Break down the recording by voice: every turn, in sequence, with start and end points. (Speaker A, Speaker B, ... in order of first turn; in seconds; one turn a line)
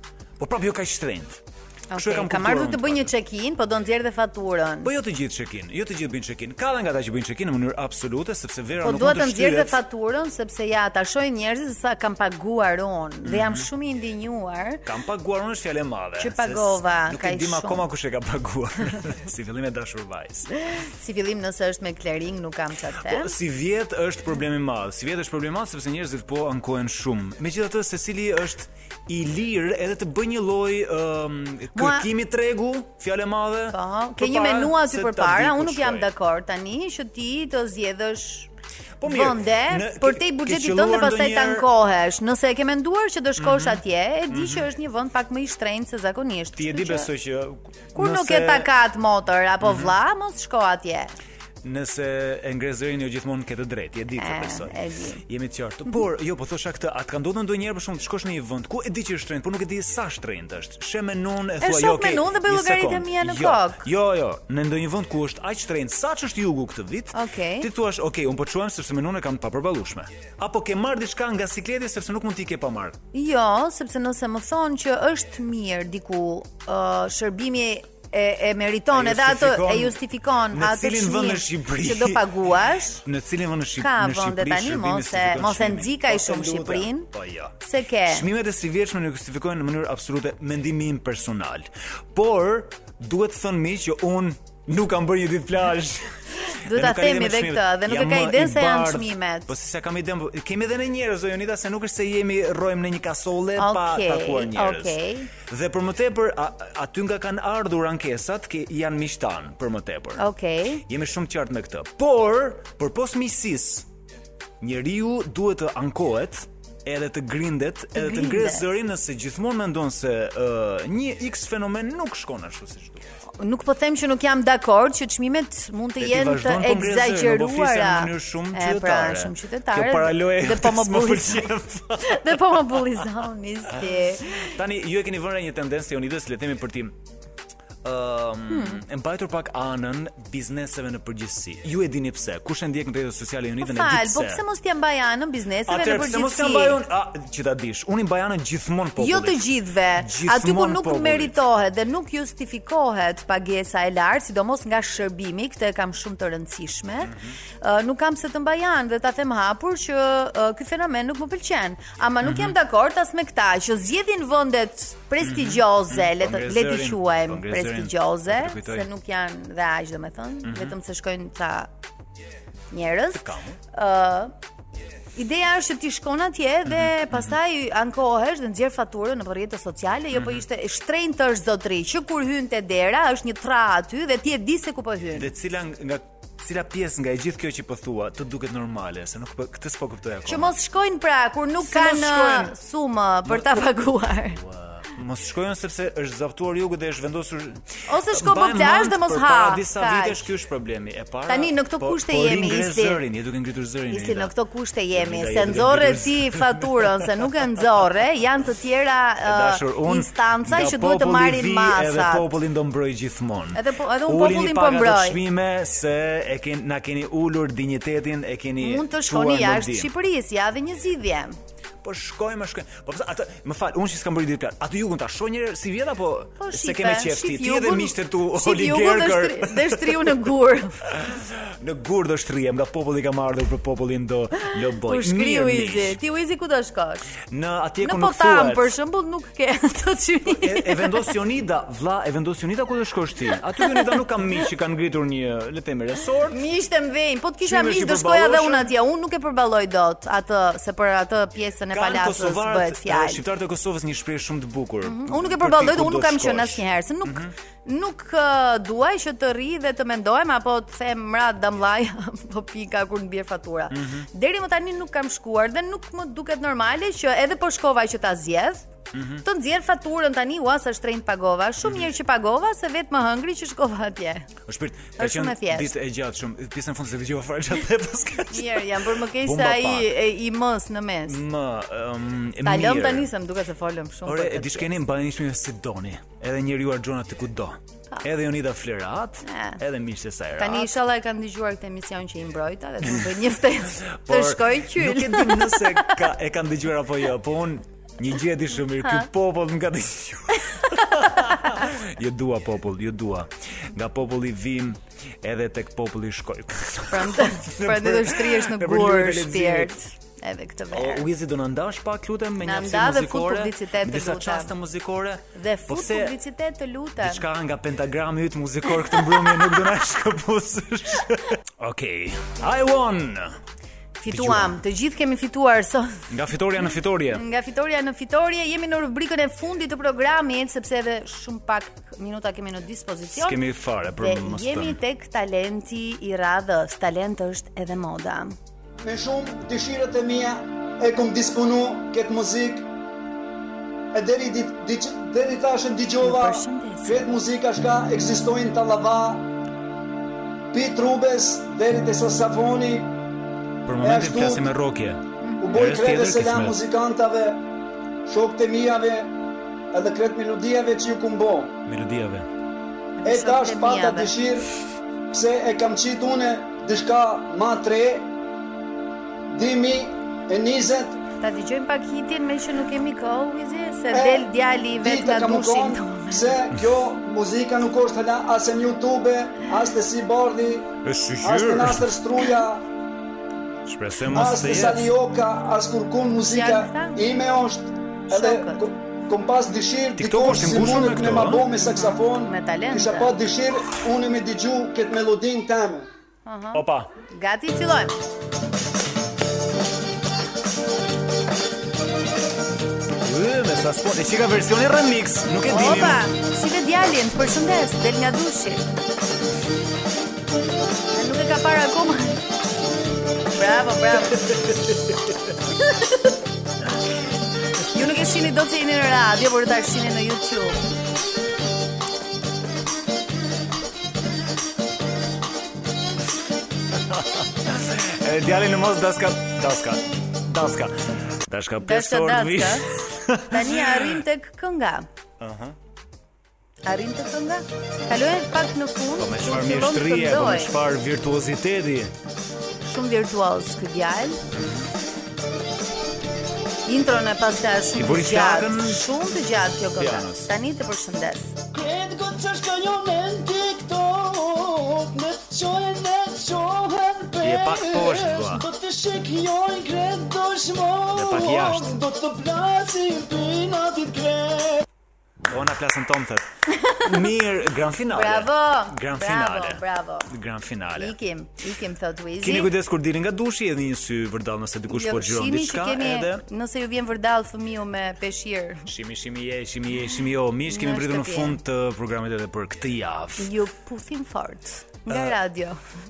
Speaker A: 0.4-1.4
Speaker B: 1.9-4.9
Speaker A: 1.9-3.1
Speaker A: 4.8-9.8
Speaker B: 8.8-14.8
Speaker A: 13.2-13.7
Speaker A: 14.8-20.5
Speaker B: 16.2-17.8
Speaker B: 20.7-23.4
Speaker A: 23.0-36.1
Speaker B: 31.8-32.1
Speaker B: 33.7-38.5
Speaker A: 39.0-41.7
Speaker B: 39.0-47.1
Speaker A: 43.4-44.7
Speaker A: 46.5-48.7
Speaker B: 48.0-51.1
Speaker A: 49.6-49.9
Speaker A: 51.6-54.7
Speaker B: 54.2-55.2
Speaker A: 55.2-73.0
Speaker B: 61.6-63.9
Speaker B: 67.1-67.7
Speaker B: 73.1-83.0
Speaker A: 78.9-80.0
Speaker A: 80.5-82.3
Speaker A: 83.0-87.6
Speaker B: 83.8-87.1
Speaker B: 87.6-88.2
Speaker A: 88.1-96.1
Speaker B: 96.5-99.5
Speaker A: 96.7-110.2
Speaker B: 103.6-105.3
Speaker B: 110.2-110.8
Speaker A: 110.9-113.9
Speaker A: 114.6-123.0
Speaker B: 118.0-118.6
Speaker B: 123.4-131.5
Speaker A: 126.0-132.5
Speaker B: 132.0-134.5
Speaker A: 134.4-136.9
Speaker A: 137.8-144.4
Speaker B: 138.5-138.8
Speaker B: 143.6-146.8
Speaker A: 145.7-149.4
Speaker B: 149.0-171.7
Speaker A: 150.0-151.4
Speaker A: 157.0-157.3
Speaker A: 162.2-162.6
Speaker A: 165.2-168.9
Speaker A: 170.4-170.8
Speaker B: 172.7-174.3
Speaker A: 173.1-173.6
Speaker B: 175.2-185.3
Speaker A: 176.7-177.4
Speaker A: 180.1-180.4
Speaker A: 185.1-190.5
Speaker B: 190.3-194.4
Speaker A: 191.6-192.5
Speaker A: 193.2-204.3
Speaker B: 197.9-200.3
Speaker B: 201.3-203.0
Speaker B: 203.9-212.3
Speaker A: 204.9-206.9
Speaker A: 209.2-219.9
Speaker B: 213.5-215.2
Speaker B: 218.6-221.3
Speaker A: 221.8-230.2
Speaker B: 226.4-230.8
Speaker A: 230.9-236.0
Speaker B: 234.8-237.1
Speaker A: 237.3-238.7
Speaker B: 237.8-241.1
Speaker A: 240.2-246.4
Speaker B: 243.6-243.9
Speaker B: 246.3-253.2
Speaker A: 247.4-248.7
Speaker A: 251.7-257.3
Speaker B: 254.8-268.6
Speaker A: 263.7-264.1
Speaker A: 268.9-269.2
Speaker B: 269.2-274.3
Speaker A: 271.6-271.9
Speaker A: 274.5-279.9
Speaker B: 275.0-275.7
Speaker B: 278.3-281.2
Speaker A: 281.1-283.1
Speaker B: 282.4-284.8
Speaker A: 284.1-290.7
Speaker B: 289.2-289.6
Speaker B: 290.4-296.0
Speaker A: 292.8-293.1
Speaker A: 293.8-309.8
Speaker B: 298.8-299.1
Speaker B: 306.9-311.0
Speaker A: 310.7-316.1
Speaker B: 312.4-314.5
Speaker B: 315.3-317.2
Speaker A: 317.0-323.4
Speaker B: 318.9-319.5
Speaker B: 324.0-326.0
Speaker A: 324.1-324.6
Speaker A: 326.1-327.2
Speaker B: 326.6-333.4
Speaker A: 333.1-334.8
Speaker B: 334.0-338.3
Speaker C: 338.8-342.6
Speaker C: 343.9-349.2
Speaker B: 346.0-347.1
Speaker C: 350.5-352.9
Speaker A: 353.6-356.6
Speaker C: 353.8-354.5
Speaker B: 355.2-355.7
Speaker C: 355.4-357.4
Speaker C: 358.1-359.1
Speaker C: 359.7-361.5
Speaker A: 361.6-362.3
Speaker B: 363.0-364.1
Speaker C: 363.0-364.4
Speaker C: 365.1-368.1
Speaker C: 369.3-371.0
Speaker B: 371.2-376.4
Speaker C: 373.9-380.7
Speaker A: 380.8-381.9
Speaker C: 381.2-382.6
Speaker A: 383.7-384.9
Speaker C: 384.1-395.9
Speaker B: 386.2-387.0
Speaker B: 388.1-388.7
Speaker A: 390.0-391.4
Speaker B: 391.6-393.1
Speaker B: 396.2-398.0
Speaker A: 396.5-396.9
Speaker A: 403.0-406.0
Speaker B: 405.5-408.6
Speaker B: 410.9-412.2
Speaker B: 413.3-414.4
Speaker A: 414.1-415.0
Speaker B: 417.7-420.6
Speaker A: 426.9-430.7
Speaker A: 431.2-434.0
Speaker B: 431.6-434.9
Speaker A: 435.2-435.6
Speaker B: 436.6-440.5
Speaker A: 439.0-441.9
Speaker B: 442.6-444.2
Speaker A: 444.3-444.7
Speaker B: 446.6-451.3
Speaker A: 447.7-448.8
Speaker A: 449.8-450.3
Speaker D: 451.5-464.6
Speaker A: 457.2-458.4
Speaker A: 460.9-461.8
Speaker A: 465.3-466.2
Speaker A: 466.8-470.9
Speaker B: 467.9-470.1
Speaker B: 470.8-472.5
Speaker A: 472.2-476.2
Speaker B: 474.7-478.6
Speaker A: 478.7-483.3
Speaker B: 480.5-481.4
Speaker B: 483.2-485.6
Speaker A: 484.9-485.2